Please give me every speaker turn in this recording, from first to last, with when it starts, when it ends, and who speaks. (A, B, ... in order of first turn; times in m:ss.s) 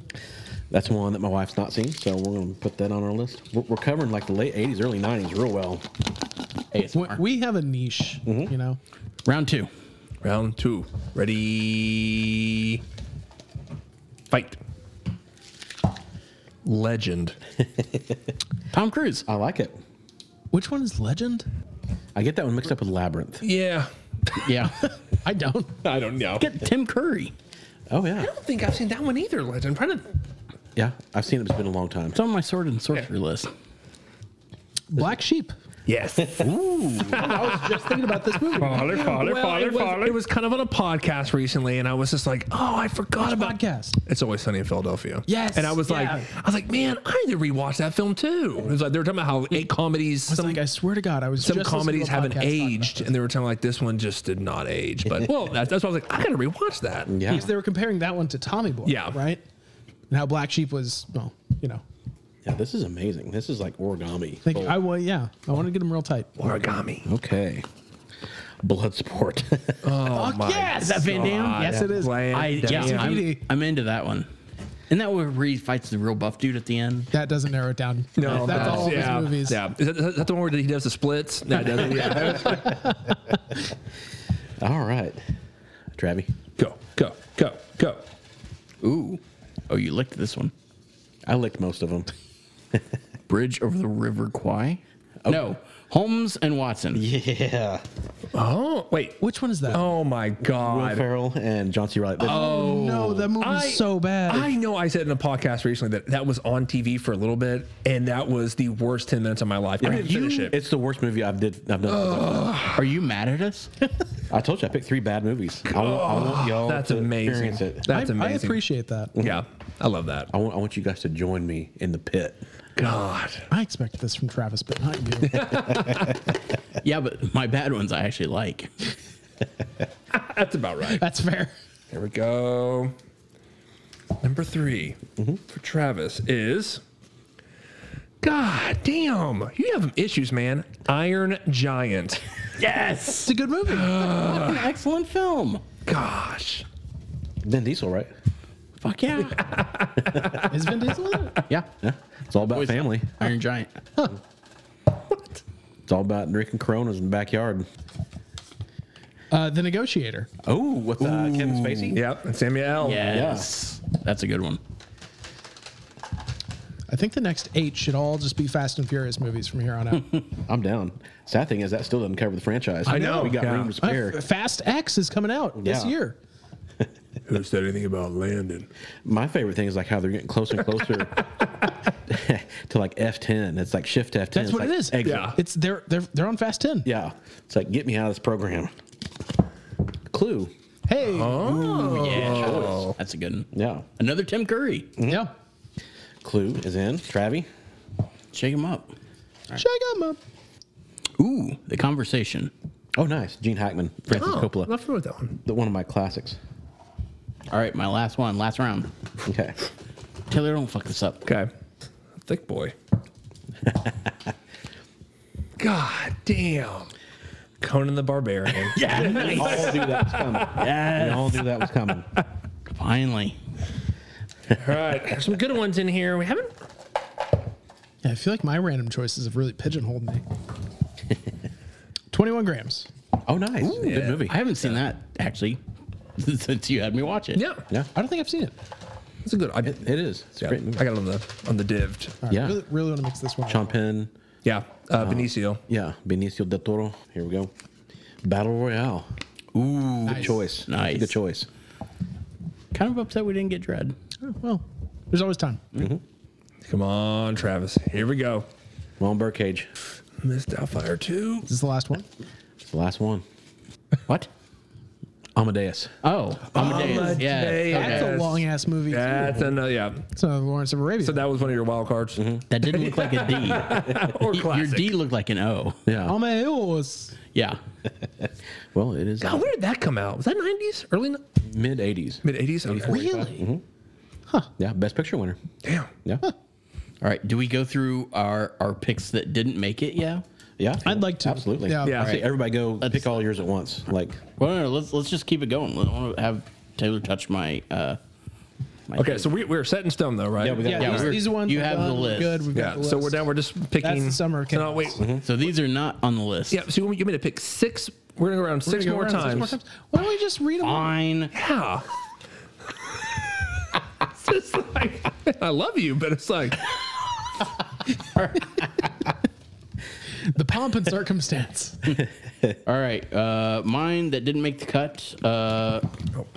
0:00.7-0:05.9 A
0:06.7-0:07.2 B
0:06.9-0:08.8 C
0:08.2-0:08.5 A
0:09.2-0:09.7 B
0:10.2-0:12.8 D
0:14.3-0:14.6 D
0:16.6-0:17.4 D
0:18.7-0:19.2 B
0:19.3-0:19.8 A
0:20.5-0:21.5 C
0:22.2-0:23.5 A
0:23.4-0:23.9 D
0:24.4-0:24.8 B
0:25.1-0:25.8 C
0:25.8-0:26.5 D
0:26.4-0:27.3 B
0:27.9-0:28.3 A
0:28.2-0:30.1 D
0:30.8-0:32.2 A
0:32.1-0:33.5 B
0:34.9-0:35.5 C
0:35.9-0:50.6 D
0:36.4-0:37.3 B
0:37.1-0:40.1 C
0:43.2-0:44.0 C
0:45.3-0:46.3 C
0:50.3-0:53.1 C
0:51.4-0:57.1 D
0:55.1-0:55.3 A
0:57.1-0:57.5 A
0:57.3-0:59.4 C
0:58.8-0:59.2 D
1:00.1-1:01.8 C
1:02.4-1:04.8 A
1:04.4-1:06.3 C
1:06.4-1:07.1 D
1:07.0-1:07.6 A
1:08.6-1:10.0 A
1:09.8-1:13.3 D
1:10.1-1:13.4 C
1:10.9-1:11.7 B
1:11.7-1:12.0 A
1:12.3-1:14.3 B
1:14.9-1:17.1 B
1:17.1-1:19.6 C
1:18.2-1:22.9 D
1:18.2-1:18.9 B
1:21.8-1:22.3 B
1:24.6-1:25.2 A
1:26.0-1:26.3 A
1:26.6-1:28.0 D
1:28.8-1:30.5 B
1:31.2-1:32.1 A
1:33.3-1:37.0 B
1:35.2-1:35.5 A
1:36.9-1:37.8 A
1:38.3-1:41.1 D
1:39.2-1:39.9 C
1:40.4-1:42.5 A
1:42.2-1:44.5 C
1:42.3-1:43.3 B
1:42.4-1:50.6 D
1:49.8-1:52.6 A
1:51.9-1:52.9 D
1:52.8-1:53.9 B
1:54.3-1:57.9 A
1:55.7-1:58.6 D
1:57.9-1:59.1 C
1:59.2-1:59.4 A
1:59.2-2:00.3 D
2:00.3-2:02.4 A
2:02.8-2:03.5 D
2:03.5-2:05.6 C
2:05.2-2:06.2 D
2:06.8-2:08.9 B
2:10.1-2:11.0 D
2:10.9-2:11.5 C
2:11.9-2:13.0 D
2:14.2-2:16.8 D
2:18.2-2:22.2 D
2:22.6-2:23.3 B
2:23.2-2:24.0 C
2:23.7-2:24.7 D
2:24.0-2:25.7 B
2:25.8-2:26.6 D
2:27.4-2:28.1 A
2:28.8-2:29.5 B
2:29.4-2:30.5 D
2:30.4-2:31.4 C
2:31.7-2:33.3 A
2:32.5-2:33.8 B
2:35.9-2:37.7 A
2:39.3-2:40.3 C
2:40.4-2:42.0 A
2:41.0-2:42.0 B
2:42.0-2:43.3 D
2:42.8-2:44.6 B
2:43.0-2:43.5 A
2:46.9-2:50.2 C
2:50.3-2:54.2 A
2:52.9-2:53.8 D
2:52.9-2:56.2 C
2:55.6-2:56.0 A
2:57.3-2:58.7 D
2:59.0-3:01.3 A
3:01.2-3:01.5 D
3:01.9-3:05.3 A
3:04.3-3:06.9 C
3:05.0-3:05.4 D
3:06.8-3:08.7 A
3:10.1-3:10.5 A
3:10.9-3:12.2 C
3:11.1-3:13.0 D
3:11.7-3:14.9 B
3:12.2-3:12.9 A
3:13.5-3:13.9 A
3:15.0-3:15.3 A
3:15.0-3:15.3 C
3:16.2-3:17.5 A
3:18.3-3:18.9 B
3:19.6-3:20.2 C
3:21.2-3:22.5 B
3:23.0-3:24.7 A
3:24.1-3:25.4 D
3:25.4-3:26.4 A
3:27.5-3:28.9 B
3:29.2-3:29.6 A
3:30.3-3:31.2 B
3:31.2-3:31.5 D
3:32.2-3:32.8 D
3:35.6-3:36.9 D
3:37.6-3:40.7 D
3:38.6-3:39.8 B
3:38.9-3:42.1 A
3:40.5-3:41.5 B
3:42.7-3:43.4 B
3:44.5-3:46.5 D
3:48.0-3:50.2 C
3:52.1-3:52.9 C
3:53.2-3:54.4 A
3:53.6-3:54.2 D
3:54.2-3:55.6 B
3:56.2-3:57.4 B
3:57.3-3:57.6 D
3:58.0-3:58.5 C
3:59.2-3:59.9 D
3:59.6-4:00.9 A
4:00.4-4:02.2 D
4:02.2-4:03.8 C
4:02.3-4:02.6 A
4:03.5-4:04.1 A
4:04.4-4:05.6 D
4:05.0-4:07.5 A
4:08.2-4:09.1 A
4:09.6-4:11.2 B
4:10.1-4:10.4 C
4:10.1-4:11.5 A
4:12.7-4:14.0 B
4:14.2-4:15.6 C
4:16.7-4:18.5 D
4:19.0-4:19.7 A
4:20.2-4:21.5 D
4:21.5-4:22.1 C
4:22.6-4:23.2 A
4:25.4-4:25.9 A
4:26.0-4:28.1 B
4:26.5-4:29.5 C
4:26.5-4:30.1 D
4:30.2-4:31.3 C
4:31.0-4:35.0 D
4:32.2-4:32.4 A
4:32.5-4:35.8 B
4:35.9-4:36.2 A
4:36.0-4:37.2 C
4:37.3-4:37.6 B
4:38.7-4:39.5 A
4:39.2-4:41.2 D
4:41.4-4:43.6 A
4:42.2-4:43.0 D
4:42.8-4:43.5 C
4:44.6-4:45.4 A
4:45.6-4:45.9 D
4:47.0-4:50.2 B
4:50.6-4:54.2 A
4:50.8-4:52.1 C
4:51.8-4:52.2 D
4:52.0-4:53.2 B
4:54.4-4:58.0 B
4:58.9-4:59.4 B
4:59.0-5:01.1 D
5:00.4-5:01.2 A
5:00.6-5:05.0 C
5:00.8-5:02.5 B
5:02.5-5:05.1 D
5:05.0-5:05.3 A
5:05.2-5:06.6 B
5:06.5-5:09.6 D
5:08.6-5:11.0 C
5:10.6-5:11.3 B
5:11.3-5:11.8 D
5:14.1-5:16.7 D
5:18.2-5:18.4 B
5:20.3-5:21.9 C
5:22.7-5:25.9 B